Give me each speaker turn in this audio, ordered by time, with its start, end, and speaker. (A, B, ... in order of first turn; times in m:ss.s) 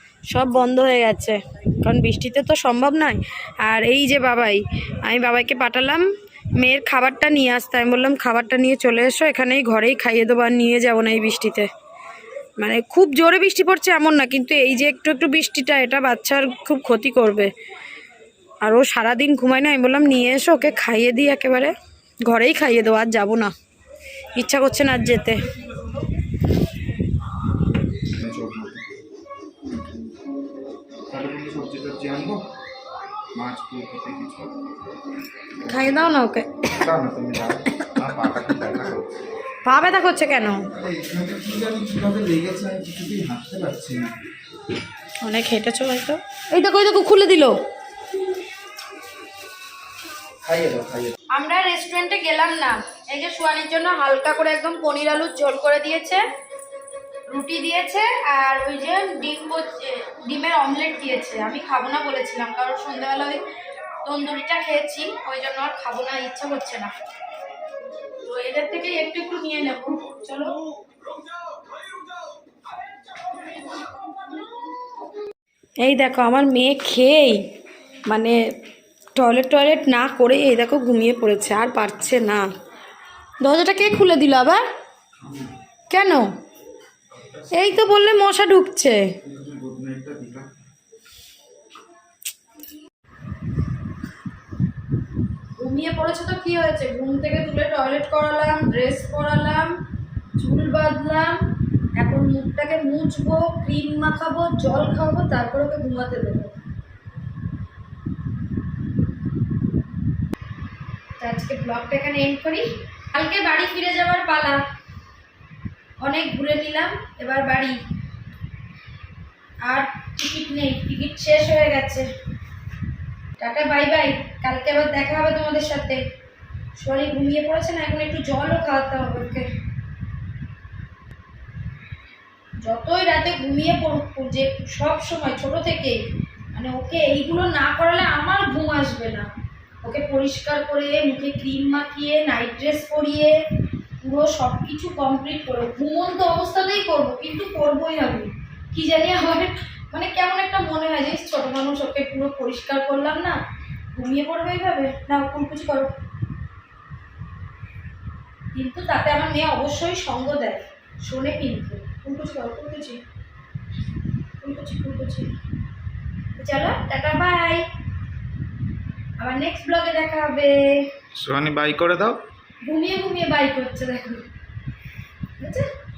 0:00.3-0:06.0 A
0:06.6-0:11.7 A
0:12.6-0:17.5 A
0:18.6-0:21.7 A
0:22.3-0:23.5 A
0:24.4-0:25.4 A
0:28.0-0:28.8 B
0:31.1-0:32.4 B
0:33.3-0:34.5 B
0:35.7-0:36.5 A
0:36.8-0:39.1 B
0:39.6-0:40.6 A
0:40.7-0:44.1 B
0:45.2-0:47.5 A
0:50.4-0:51.2 B
0:51.3-0:56.2 A
0:57.3-1:03.4 A
1:04.0-1:06.9 A
1:08.2-1:10.6 A
1:15.8-1:17.4 A
1:18.1-1:18.4 A
1:19.2-1:22.5 A
1:23.4-1:24.6 A
1:25.2-1:25.5 B
1:25.9-1:26.3 A
1:27.5-1:29.0 A
1:29.2-1:30.5 B
1:35.6-1:39.7 A
1:40.4-1:41.4 A
1:42.0-1:46.5 A
1:51.2-1:54.6 A
1:56.0-1:57.8 A
1:59.6-2:02.1 A
2:03.4-2:06.0 A
2:06.8-2:09.5 A
2:12.6-2:16.0 A
2:16.5-2:19.3 A
2:19.8-2:23.4 A
2:24.0-2:33.4 A
2:34.0-2:35.9 A
2:38.5-2:43.0 A
2:44.4-2:45.3 A
2:46.4-2:47.6 A
2:49.2-2:50.9 A
2:51.2-2:52.2 B
2:52.6-2:54.2 A
2:55.4-2:55.7 A